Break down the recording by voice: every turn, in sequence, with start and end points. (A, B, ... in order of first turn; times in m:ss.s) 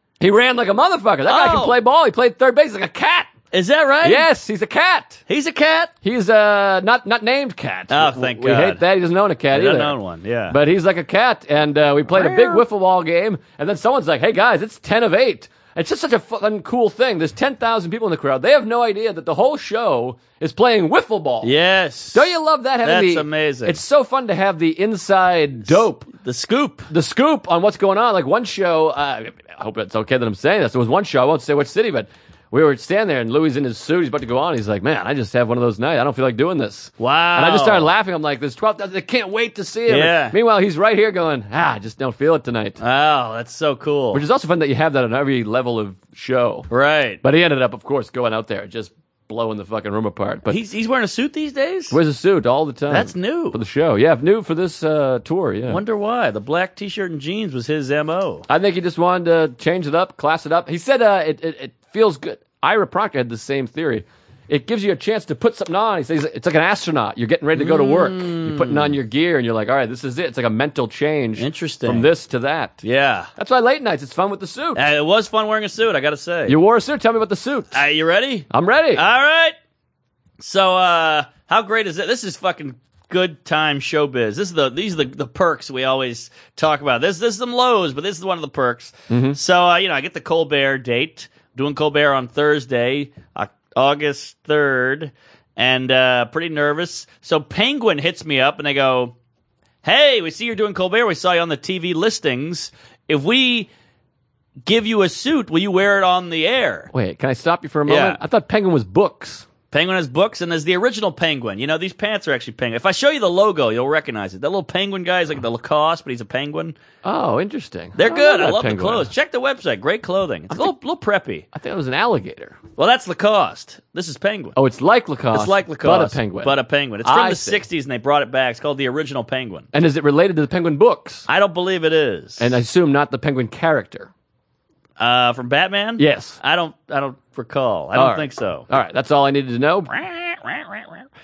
0:00.2-0:03.3 A
0:01.3-0:01.8 B
0:03.5-0:04.3 B
0:04.0-0:05.2 A
0:05.3-0:05.9 B
0:06.0-0:10.0 A
0:07.9-0:08.8 B
0:09.5-0:10.6 B
0:10.5-0:21.5 A
0:12.1-0:12.6 B
0:21.4-0:22.3 B
0:22.1-0:26.1 A
0:22.8-0:23.8 B
0:26.2-0:26.9 B
0:26.9-0:42.8 A
0:37.0-0:37.9 B
0:39.9-0:40.4 B
0:42.8-0:44.2 B
0:44.1-0:46.7 A
0:46.7-0:47.2 B
0:47.2-0:50.6 A
0:50.5-0:52.0 B
0:51.9-0:55.8 A
0:52.9-0:53.6 B
0:55.7-0:58.5 B
0:58.5-1:12.8 A
1:07.6-1:09.0 B
1:11.4-1:12.1 B
1:12.8-1:13.3 B
1:13.4-1:14.8 A
1:14.8-1:16.6 B
1:16.5-1:17.8 A
1:17.7-1:19.6 B
1:18.5-1:19.0 A
1:20.4-1:39.2 B
1:29.1-1:29.4 A
1:39.8-1:43.7 B
1:44.7-1:46.9 B
1:46.9-1:49.5 A
1:47.9-1:48.2 B
1:49.7-1:56.8 B
1:57.0-1:59.1 A
1:58.0-2:01.5 B
2:01.5-2:02.6 A
2:02.8-2:04.6 B
2:04.6-2:07.6 A
2:05.3-2:09.7 B
2:09.7-2:11.3 A
2:11.3-2:12.5 B
2:12.4-2:14.1 A
2:15.0-2:18.7 B
2:16.0-2:16.4 A
2:17.9-2:19.9 A
2:19.9-2:20.9 B